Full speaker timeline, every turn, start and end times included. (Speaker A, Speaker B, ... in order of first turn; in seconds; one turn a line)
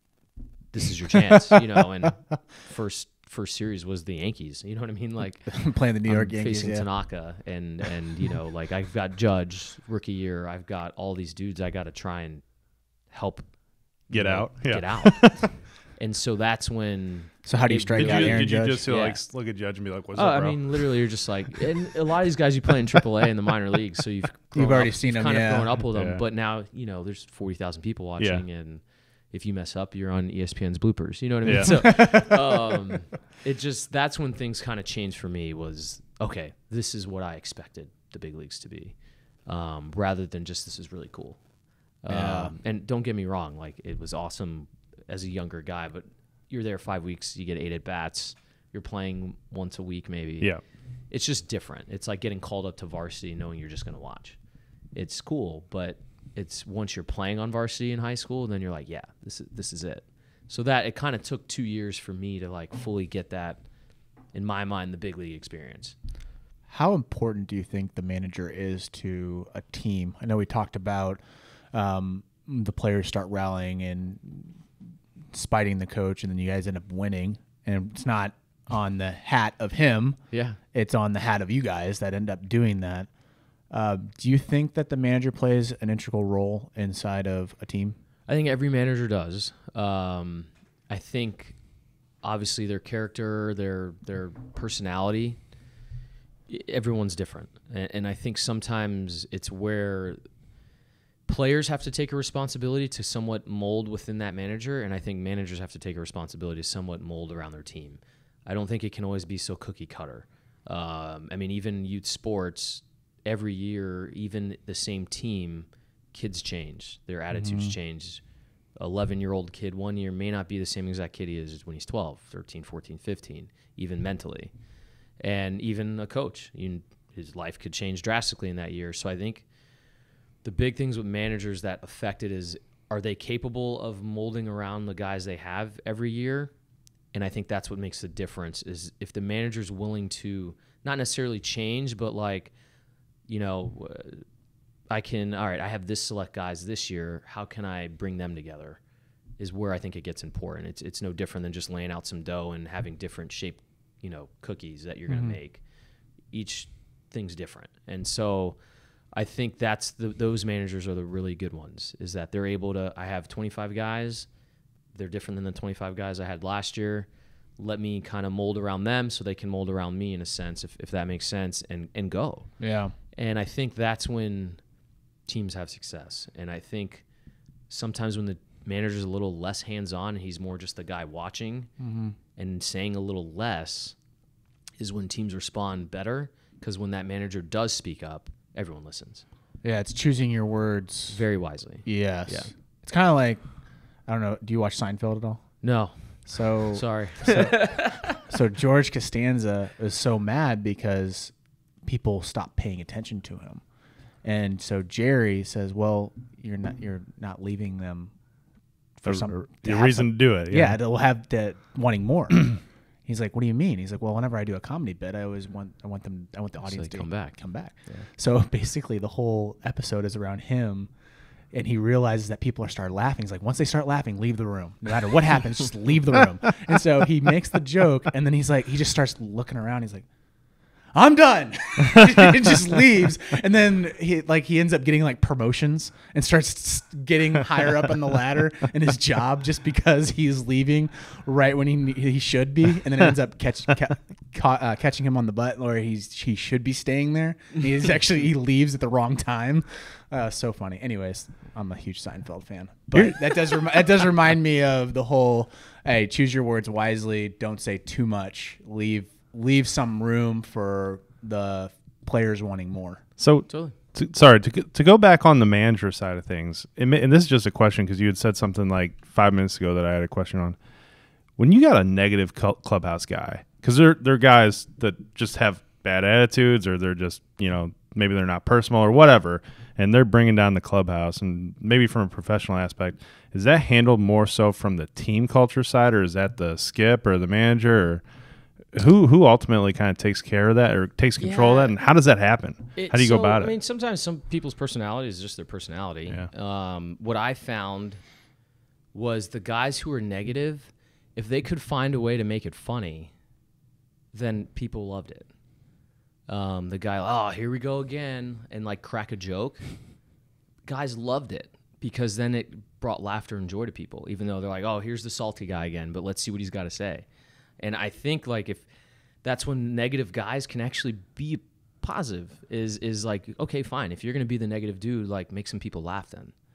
Speaker A: 0.7-12.4
Speaker B: 5.5-6.9
Speaker A: 13.1-13.5
Speaker A: 14.1-19.2
Speaker C: 14.1-15.5
Speaker B: 17.4-18.9
Speaker C: 17.9-21.0
Speaker A: 20.1-41.4
Speaker B: 24.5-25.7
Speaker C: 25.9-26.2
Speaker C: 28.2-28.4
Speaker C: 31.4-31.7
Speaker B: 31.5-32.4
Speaker A: 42.0-50.5
Speaker B: 42.1-42.5
Speaker A: 51.1-54.4
Speaker A: 54.9-63.6
Speaker A: 64.3-66.0
Speaker B: 66.7-71.2
Speaker B: 71.7-74.6
Speaker B: 75.3-80.2
Speaker A: 80.3-80.6
Speaker B: 80.7-83.1
Speaker B: 83.7-88.0
Speaker A: 88.3-91.6
Speaker A: 92.2-95.4
Speaker A: 96.5-100.2
Speaker A: 101.3-118.2
Speaker B: 117.3-117.7
Speaker A: 118.8-124.5
Speaker A: 125.2-129.4
Speaker A: 130.4-136.5
Speaker A: 137.1-142.5
Speaker A: 143.3-144.2
Speaker A: 144.9-148.8
Speaker A: 149.4-155.6
Speaker B: 155.1-155.4
Speaker A: 156.3-158.6
Speaker A: 159.1-164.3
Speaker A: 164.9-172.5
Speaker B: 172.6-172.9
Speaker A: 173.1-174.6
Speaker A: 175.3-177.0
Speaker A: 177.7-181.7
Speaker B: 181.8-182.2
Speaker A: 182.3-184.0
Speaker A: 184.8-189.2
Speaker B: 189.6-191.2
Speaker A: 191.1-192.5
Speaker B: 191.8-193.4
Speaker B: 194.1-195.4
Speaker A: 195.6-198.2
Speaker B: 196.2-203.6
Speaker B: 204.2-208.1
Speaker B: 209.0-220.9
Speaker C: 209.1-210.8
Speaker A: 216.6-218.1
Speaker B: 221.5-230.1
Speaker B: 230.9-263.0
Speaker C: 263.2-270.6
Speaker A: 263.5-263.7
Speaker C: 271.4-288.0
Speaker C: 288.7-293.5
Speaker A: 291.2-291.7
Speaker A: 292.8-298.0
Speaker A: 298.9-303.1
Speaker A: 304.1-305.3
Speaker A: 306.3-309.6
Speaker A: 310.6-317.1
Speaker A: 317.6-318.6
Speaker A: 319.2-326.3